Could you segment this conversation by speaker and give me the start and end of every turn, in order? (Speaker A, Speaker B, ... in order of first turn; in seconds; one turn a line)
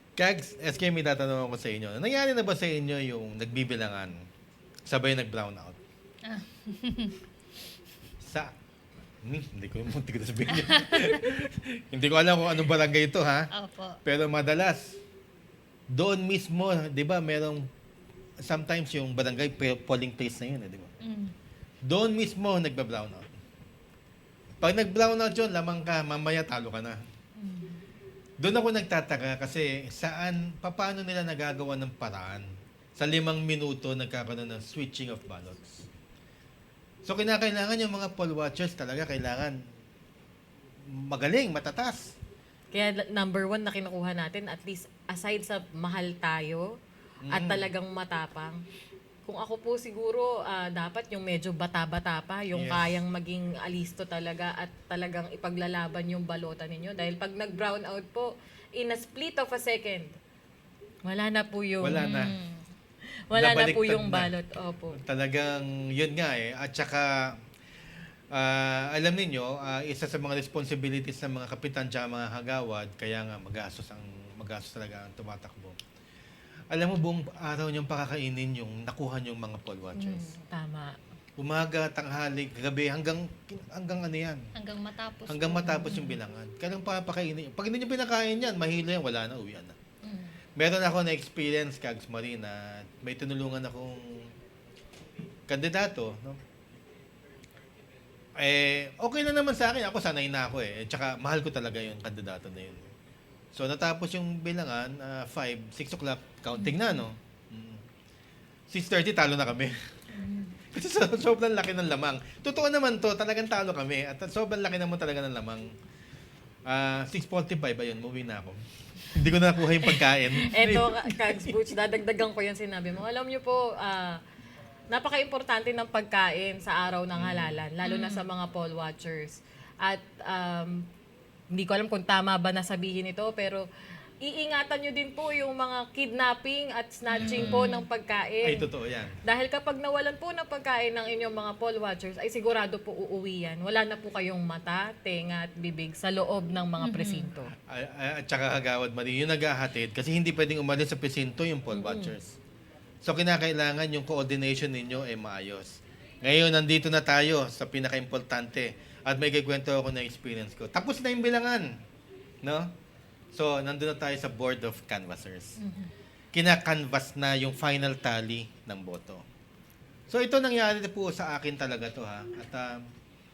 Speaker A: 0.2-4.3
Speaker A: 4.9-5.8
Speaker B: 6.2-7.2
Speaker A: 8.2-8.5
Speaker A: 9.2-13.5
Speaker B: 10.5-11.2
Speaker B: 13.5-14.0
Speaker A: 14.1-15.0
Speaker A: 15.9-17.7
Speaker A: 18.4-20.9
Speaker B: 21.0-21.3
Speaker A: 21.9-23.3
Speaker A: 24.6-27.0
Speaker B: 27.4-27.8
Speaker A: 28.4-35.9
Speaker A: 37.0-39.6
Speaker A: 40.9-42.2
Speaker C: 42.7-46.7
Speaker A: 47.2-47.7
Speaker C: 47.3-48.6
Speaker C: 49.2-60.2
Speaker A: 52.5-52.9
Speaker C: 61.0-62.1
Speaker A: 61.8-62.4
Speaker B: 62.0-62.6
Speaker C: 63.3-65.0
Speaker A: 63.3-64.3
Speaker A: 64.9-67.4
Speaker A: 68.3-75.8
Speaker A: 76.7-80.3
Speaker B: 80.0-80.4
Speaker C: 80.5-81.0
Speaker A: 81.4-84.4
Speaker B: 84.5-86.2
Speaker A: 85.3-89.8
Speaker B: 90.0-90.4
Speaker A: 90.6-94.3
Speaker A: 95.5-96.4
Speaker A: 98.4-102.9
Speaker A: 103.5-107.8
Speaker B: 106.5-106.9
Speaker A: 108.7-109.8
Speaker B: 110.2-110.6
Speaker A: 110.7-115.7
Speaker A: 116.7-118.6
Speaker A: 119.1-121.5
Speaker C: 120.4-124.2
Speaker C: 124.9-130.8
Speaker A: 127.2-127.6
Speaker B: 127.8-128.2
Speaker C: 131.5-133.7
Speaker C: 134.2-138.7
Speaker B: 137.1-137.9
Speaker A: 137.2-137.6
Speaker A: 138.4-139.2
Speaker C: 139.2-147.5
Speaker B: 146.8-147.3
Speaker A: 147.7-152.4
Speaker C: 151.7-152.1
Speaker A: 153.0-161.8
Speaker A: 162.4-162.8
Speaker A: 163.3-165.6
Speaker B: 165.6-165.9
Speaker A: 166.3-169.2
Speaker A: 170.1-172.9